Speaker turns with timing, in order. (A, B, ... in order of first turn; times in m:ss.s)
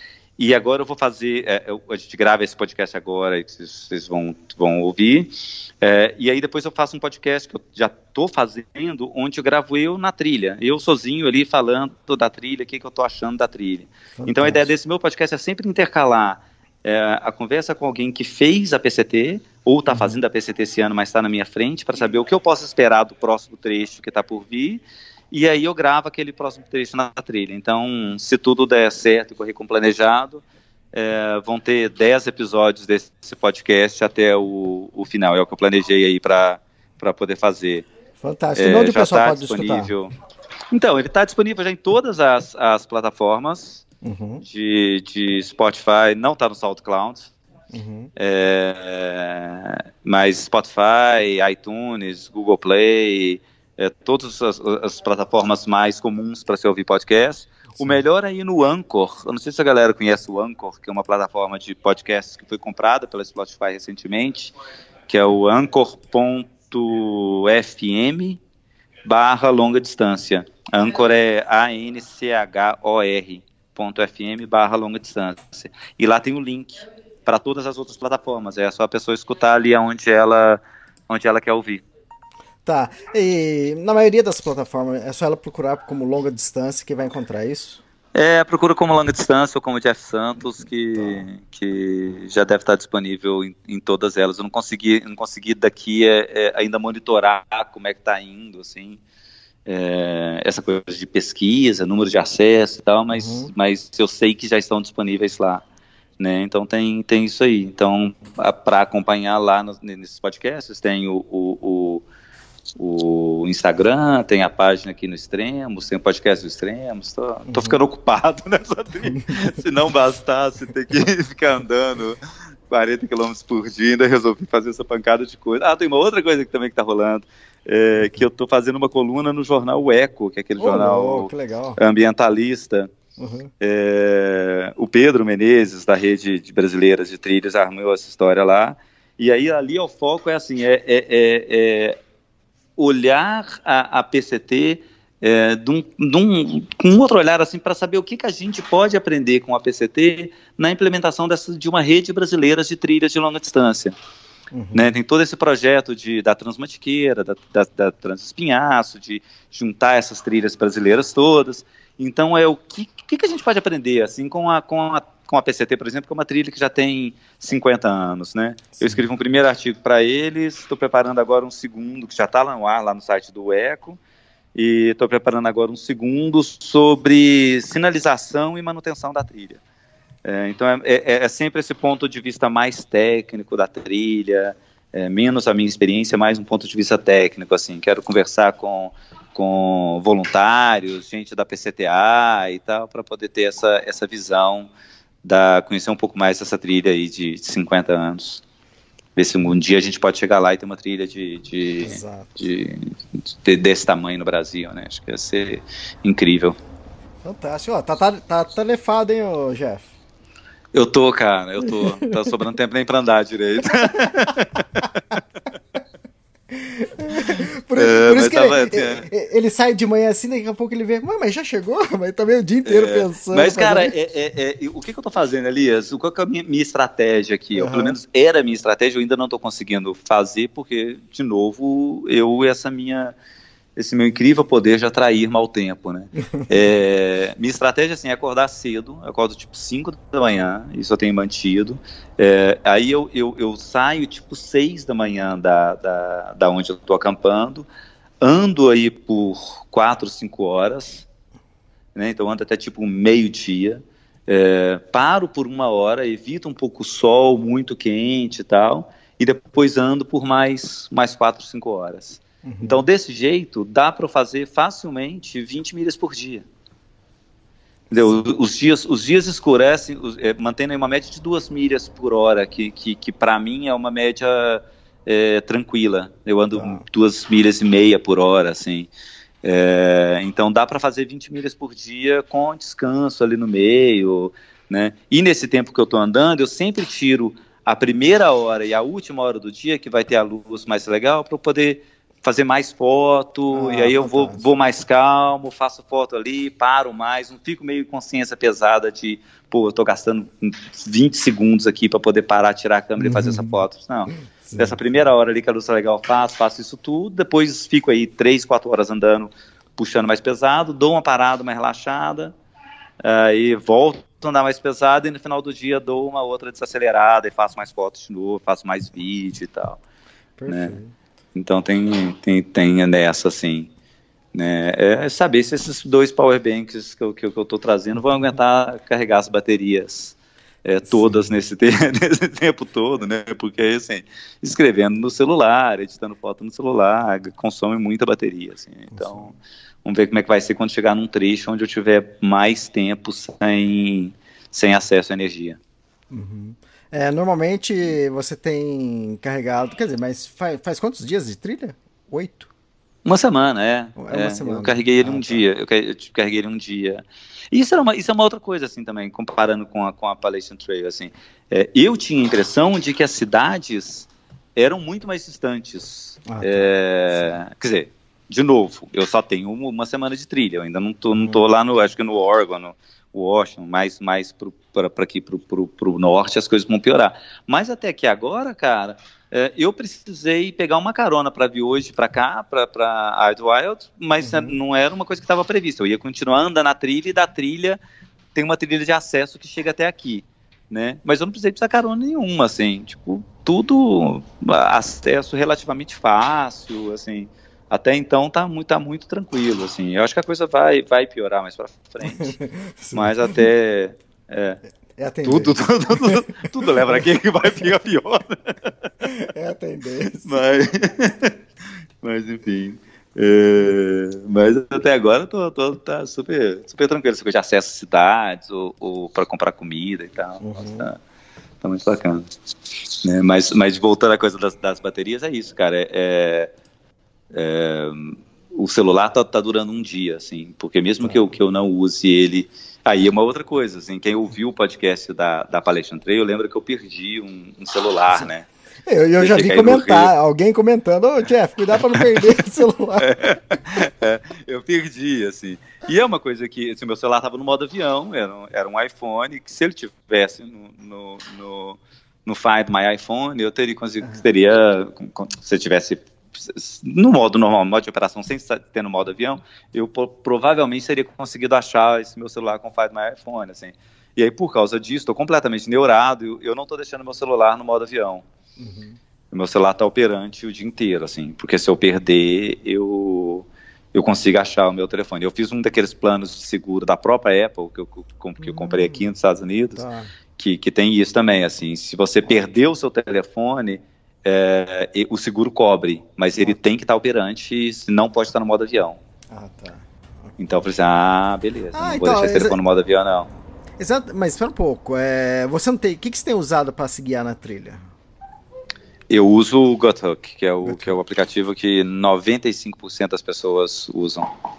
0:00.4-0:30.4 A
0:14.2-0:14.7 B
0:19.9-0:20.2 B
0:30.9-0:37.8 A
0:38.2-0:39.9 B
0:38.6-0:40.1 A
0:40.7-0:43.8 A
0:44.0-0:44.4 B
0:44.4-0:47.3 A
0:47.7-0:48.1 B
0:48.2-1:04.5 A
0:57.8-0:58.0 B
1:05.1-1:08.4 A
1:09.0-1:21.8 A
1:22.6-1:27.8 B
1:28.1-1:39.0 A
1:39.6-1:45.6 A
1:43.1-1:43.5 B
1:46.2-1:52.0 A
1:52.8-2:02.2 A
1:57.4-1:57.8 B
2:02.7-2:12.9 A
2:10.6-2:11.8 B
2:13.2-2:13.5 B
2:13.6-2:22.0 A
2:22.8-2:33.9 A
2:34.5-2:34.9 B
2:34.7-2:54.0 A
2:54.5-2:59.6 A
3:00.2-3:14.7 A
3:15.2-3:18.4 A
3:19.2-3:26.6 A
3:21.8-3:22.4 B
3:27.2-3:29.9 B
3:30.7-3:35.1 A
3:31.6-3:32.3 B
3:36.5-3:43.9 B
3:37.2-3:39.0 A
3:42.6-3:53.1 A
3:47.5-3:48.0 B
3:53.8-4:07.7 A
4:08.2-4:11.0 A
4:11.9-4:26.4 A
4:22.4-4:22.8 B
4:27.9-4:28.3 B
4:27.9-4:38.9 A
4:36.5-4:36.8 B
4:39.4-5:12.3 A
4:53.5-4:54.4 B
5:03.0-5:03.6 B
5:04.4-5:04.8 B
5:13.0-5:19.8 A
5:20.4-5:20.9 B
5:20.5-5:20.8 A
5:21.3-5:23.7 A
5:24.3-5:45.6 A
5:30.9-5:31.3 B
5:38.9-5:39.3 B
5:46.1-5:52.5 B
5:53.0-6:27.8 A
5:54.0-5:55.4 B
6:06.3-6:07.3 B
6:11.2-6:11.4 B
6:24.2-6:24.6 B
6:28.3-6:42.4 A
6:42.1-6:43.5 B
6:42.9-6:44.6 A
6:45.0-6:46.2 B
6:45.2-6:48.7 A
6:49.0-6:50.4 B
6:50.2-6:51.3 A
6:52.0-7:01.0 A
7:00.4-7:00.9 B
7:01.6-7:02.3 A
7:03.0-7:06.5 A
7:07.3-7:18.5 A
7:18.8-7:23.4 B
7:19.2-7:20.1 A
7:23.0-7:48.2 A
7:48.6-7:49.0 B
7:49.3-7:59.8 A
7:58.4-7:59.1 B
7:59.7-8:00.1 B
8:00.4-8:09.0 A
8:09.3-8:09.8 B
8:10.4-8:13.3 A
8:11.7-8:12.6 B
8:13.8-8:17.8 B
8:19.1-8:24.3 A
8:20.6-8:21.0 B